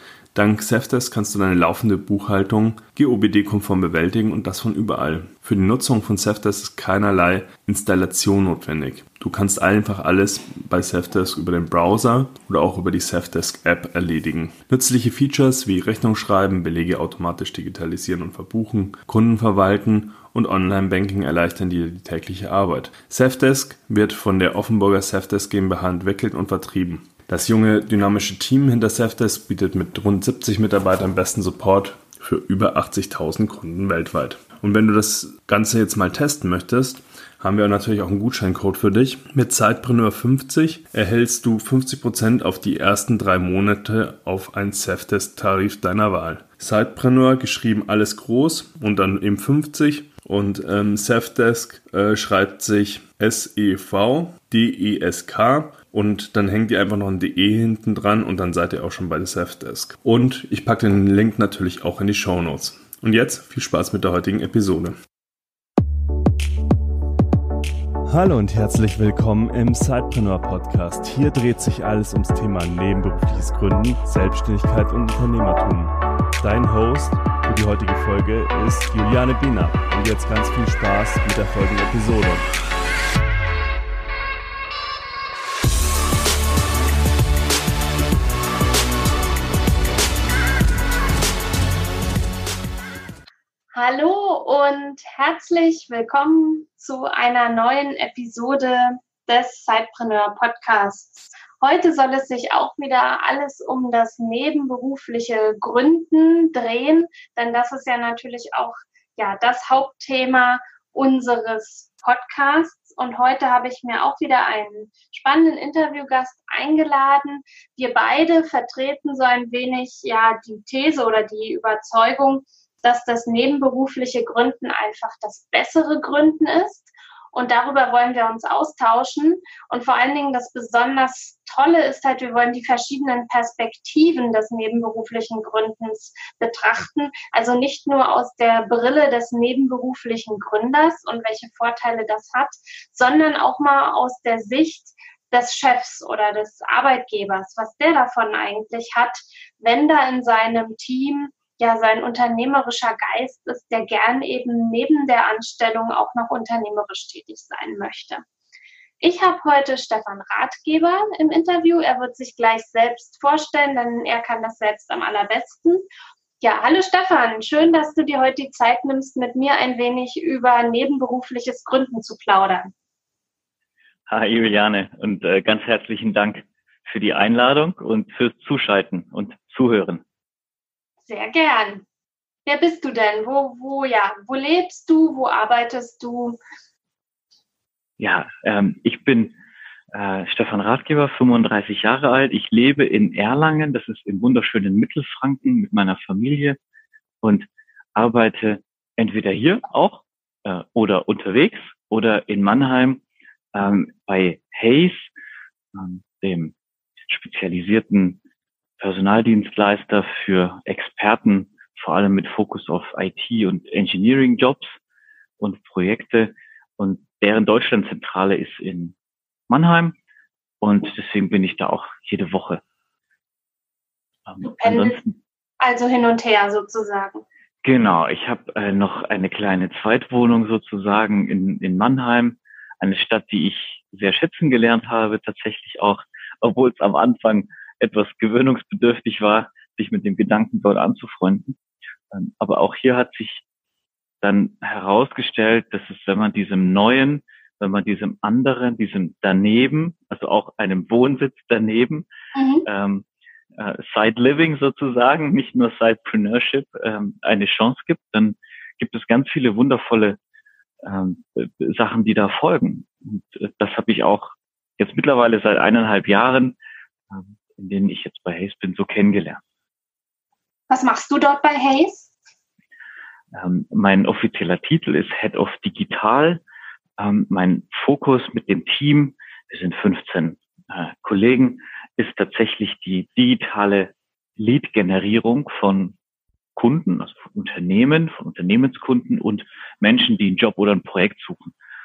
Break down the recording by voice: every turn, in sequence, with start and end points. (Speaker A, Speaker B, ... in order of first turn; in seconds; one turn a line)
Speaker A: 0.3-65.0
Speaker A: 68.1-82.5
Speaker B: 93.7-158.2
Speaker B: 159.0-165.8
Speaker B: 166.4-172.7
Speaker C: 174.1-180.0
Speaker B: 181.1-181.8
Speaker B: 182.5-186.4
Speaker C: 188.0-189.4
Speaker C: 189.9-196.6
Speaker C: 197.2-203.0
Speaker C: 203.5-205.1
Speaker C: 205.7-208.2
Speaker C: 208.8-214.8
Speaker C: 215.4-219.0
Speaker C: 219.5-220.0
Speaker C: 220.6-222.6
Speaker C: 224.3-225.2
Speaker B: 224.4-225.0
Speaker B: 225.6-227.2
Speaker C: 227.6-241.6
Speaker C: 242.1-243.4
Speaker C: 244.2-252.1
Speaker B: 252.3-252.7
Speaker C: 252.7-253.1
Speaker C: 253.6-260.2
Speaker C: 260.8-266.6
Speaker C: 267.1-269.4
Speaker B: 270.7-272.1
Speaker C: 273.3-276.4
Speaker C: 277.0-285.9
Speaker C: 286.6-291.5